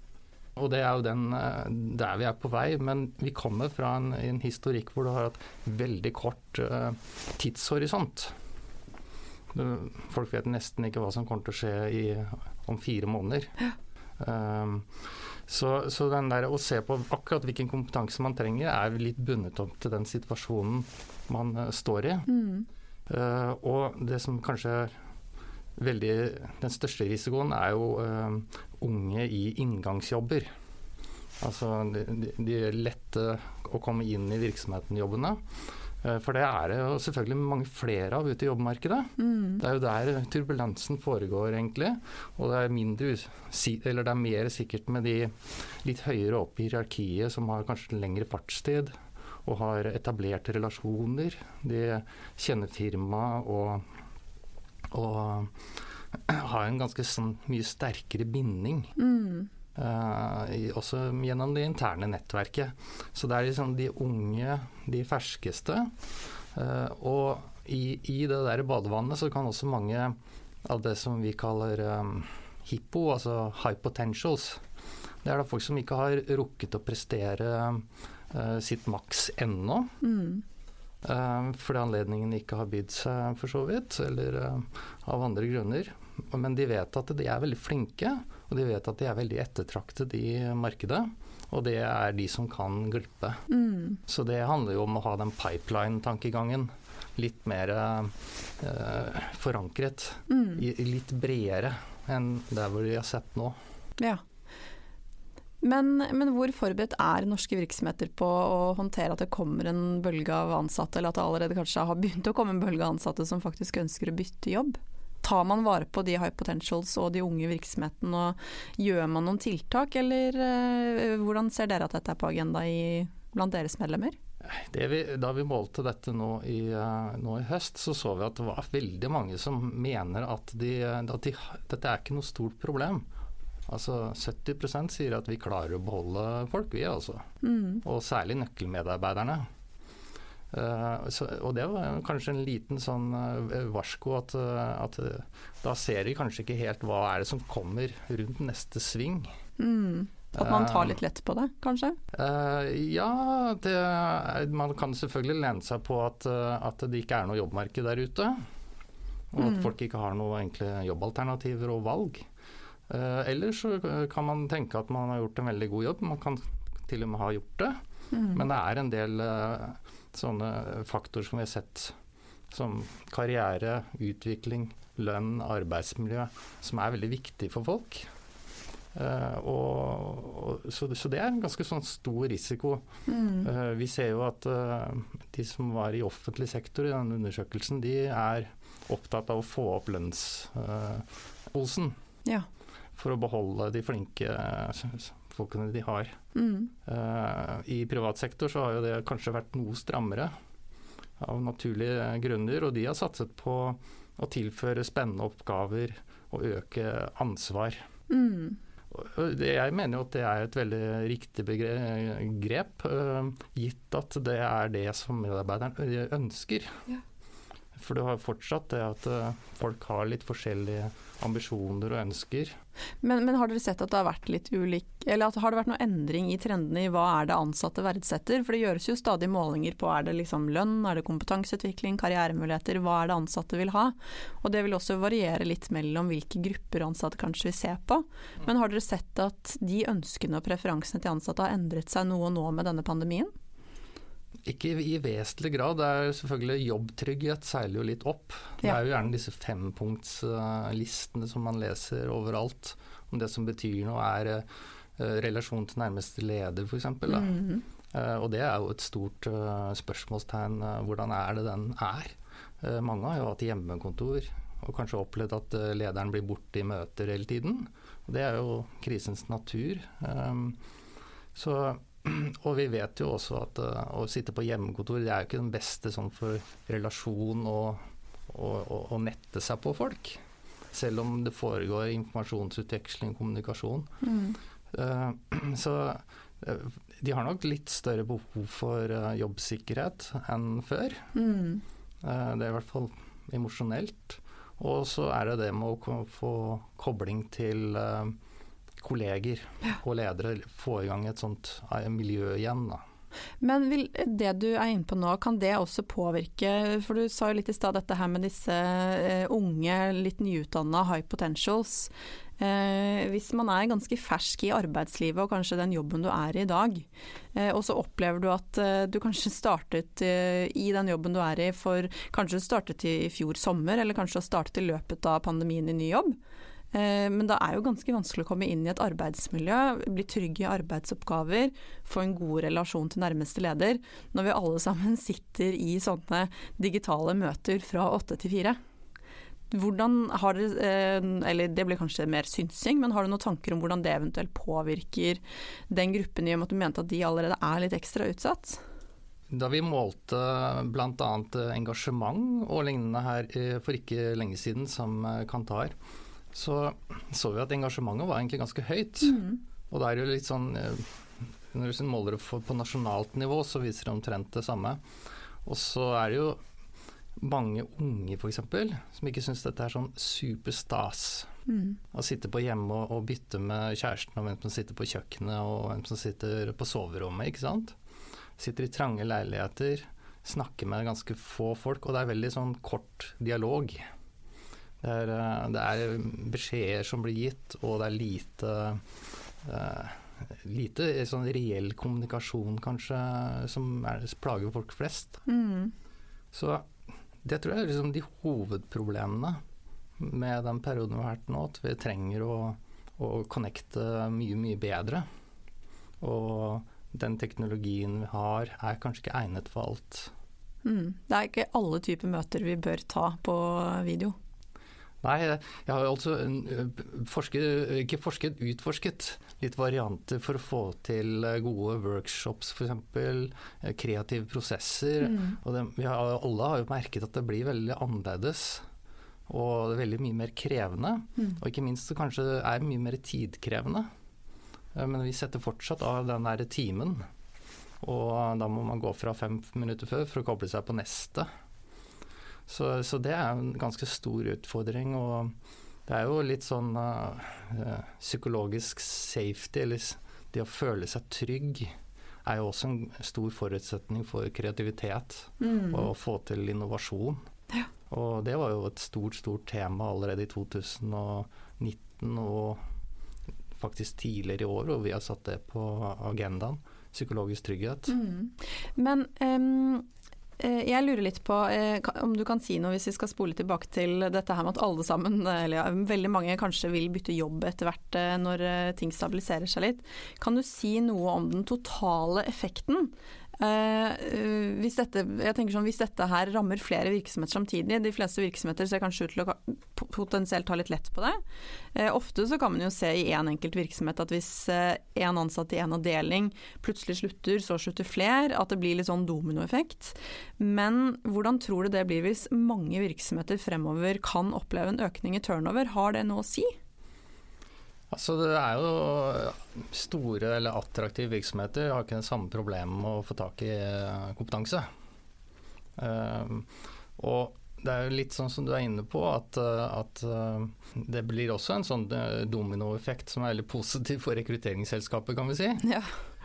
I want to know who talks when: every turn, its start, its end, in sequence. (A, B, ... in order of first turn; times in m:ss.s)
0:00.6-0:08.3 A
0:09.5-0:13.5 A
0:14.2-0:14.9 A
0:15.5-0:22.3 A
0:22.3-0:22.7 B
0:23.1-0:24.9 A
0:25.8-0:30.5 A
0:31.4-0:35.4 A
0:36.0-0:48.9 A
0:39.2-0:39.6 B
0:49.4-0:53.8 A
0:54.9-0:55.5 A
0:56.3-0:58.9 A
0:59.0-0:59.5 B
0:59.8-1:05.9 A
1:06.5-1:14.6 A
1:15.2-1:19.9 A
1:20.0-1:20.4 B
1:21.0-1:33.4 A
1:33.5-1:34.0 B
1:34.1-1:43.6 A
1:40.3-1:40.6 B
1:45.6-2:04.1 B
2:04.4-2:13.0 A
2:13.7-2:17.2 A
2:17.4-2:17.8 B
2:17.8-2:19.4 A
2:20.5-2:29.3 A
2:29.6-2:32.0 B
2:30.3-2:31.0 A
2:32.1-2:38.4 A
2:39.3-2:42.2 A
2:39.4-2:39.7 B
2:42.9-2:47.8 A
2:48.1-2:48.4 B
2:48.3-2:51.9 A
2:52.5-2:58.0 A
2:58.9-3:02.8 A
3:03.1-3:03.5 B
3:03.4-3:11.9 A
3:13.0-3:16.2 A
3:16.3-3:16.7 B
3:16.8-3:20.3 A
3:21.2-3:27.8 A
3:28.1-3:28.6 B
3:28.9-3:36.7 A
3:37.8-3:42.5 A
3:43.0-4:03.3 B
4:04.4-4:14.4 A
4:15.0-4:30.6 A
4:17.1-4:17.6 B
4:31.3-4:37.8 A
4:38.3-4:40.2 A
4:40.7-4:43.9 A
4:44.0-4:44.4 B
4:44.7-4:51.1 A
4:51.1-4:51.6 B
4:52.0-4:58.2 A
4:58.8-5:02.8 A
5:03.4-5:26.2 B
5:26.7-5:38.6 B
5:39.5-5:48.6 B
5:49.3-5:55.7 A
5:56.3-6:00.9 A
5:59.0-5:59.4 B
6:01.5-6:04.8 A
6:05.4-6:06.4 A
6:07.2-6:11.3 A
6:11.5-6:11.8 B
6:11.9-6:17.7 A
6:18.4-6:23.8 A
6:24.8-6:28.8 A
6:29.4-6:35.2 A
6:35.3-6:35.7 B
6:36.3-6:36.6 A
6:37.2-6:39.4 A
6:40.0-6:45.0 A
6:46.0-6:50.1 A
6:50.6-6:54.1 B
6:55.0-7:08.6 A
7:09.3-7:13.9 A
7:14.7-7:17.0 A
7:17.8-7:21.3 A
7:22.5-7:25.3 A
7:25.9-7:31.7 A
7:32.2-7:37.2 A
7:35.4-7:35.9 B
7:37.9-7:42.6 A
7:43.6-7:47.9 A
7:47.9-7:49.8 B
7:50.4-8:11.2 B
8:11.7-8:26.5 B
8:27.9-8:34.6 A
8:35.8-8:45.7 A
8:45.6-8:45.9 B